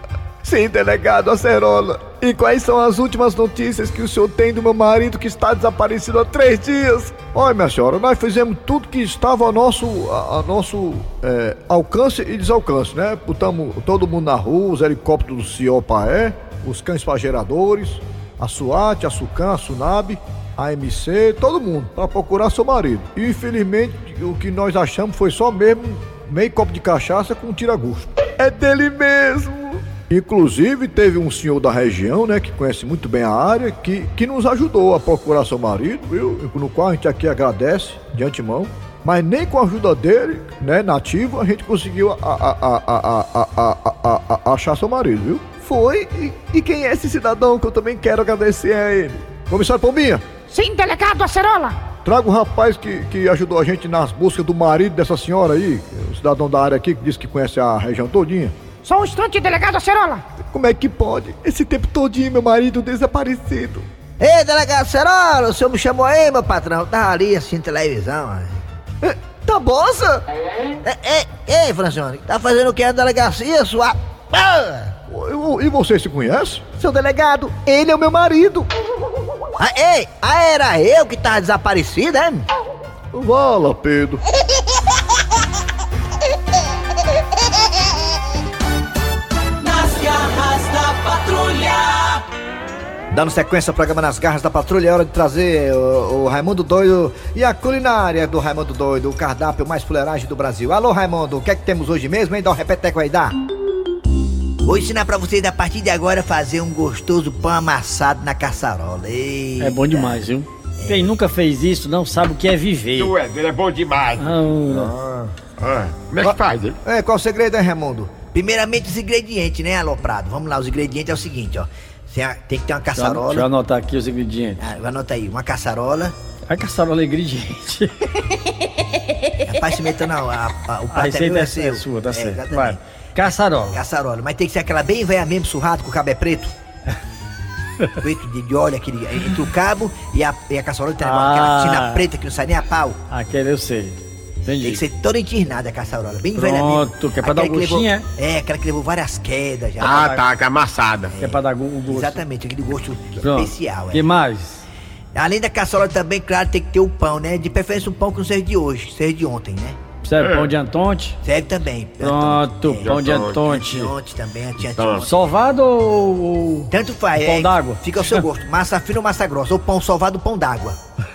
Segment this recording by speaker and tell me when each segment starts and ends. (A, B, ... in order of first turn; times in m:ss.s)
0:00.4-0:50.2 A
0:50.5-0:51.8 B
0:52.0-0:58.6 A
0:58.8-1:00.2 B
1:00.5-1:03.9 A
1:04.2-1:08.6 C
1:09.0-1:10.2 A
1:10.8-1:14.9 C
1:15.1-1:16.7 A
1:16.8-1:17.6 C
1:17.7-1:18.7 A
1:19.6-1:22.5 C
1:23.1-1:24.2 A
1:29.6-1:32.2 D
1:33.1-1:43.3 A
1:44.6-1:50.2 C
1:49.6-1:53.1 E
1:50.8-1:51.1 C
1:53.0-1:54.3 F
1:54.2-1:54.9 E
1:54.7-1:55.3 A
1:55.6-1:56.8 F
1:56.9-1:58.1 A
1:58.2-2:03.5 C
2:03.0-2:04.6 E
2:04.6-2:06.2 C
2:06.5-2:08.1 E
2:09.5-2:12.8 C
2:10.9-2:13.8 E
2:13.7-2:16.5 C
2:18.0-2:23.0 C
2:21.0-2:22.0 E
2:23.1-2:24.8 E
2:24.6-2:30.2 C
2:26.4-2:28.1 E
2:29.8-2:31.1 F
2:29.8-2:30.2 E
2:31.2-2:34.1 C
2:31.2-2:32.2 E
2:33.2-2:34.6 E
2:35.2-2:39.8 C
2:40.0-2:41.2 E
2:40.2-2:40.5 F
2:41.2-2:45.2 C
2:42.0-2:43.9 E
2:42.8-2:43.4 F
2:44.8-2:45.0 F
2:45.0-2:47.8 E
2:46.7-2:50.8 C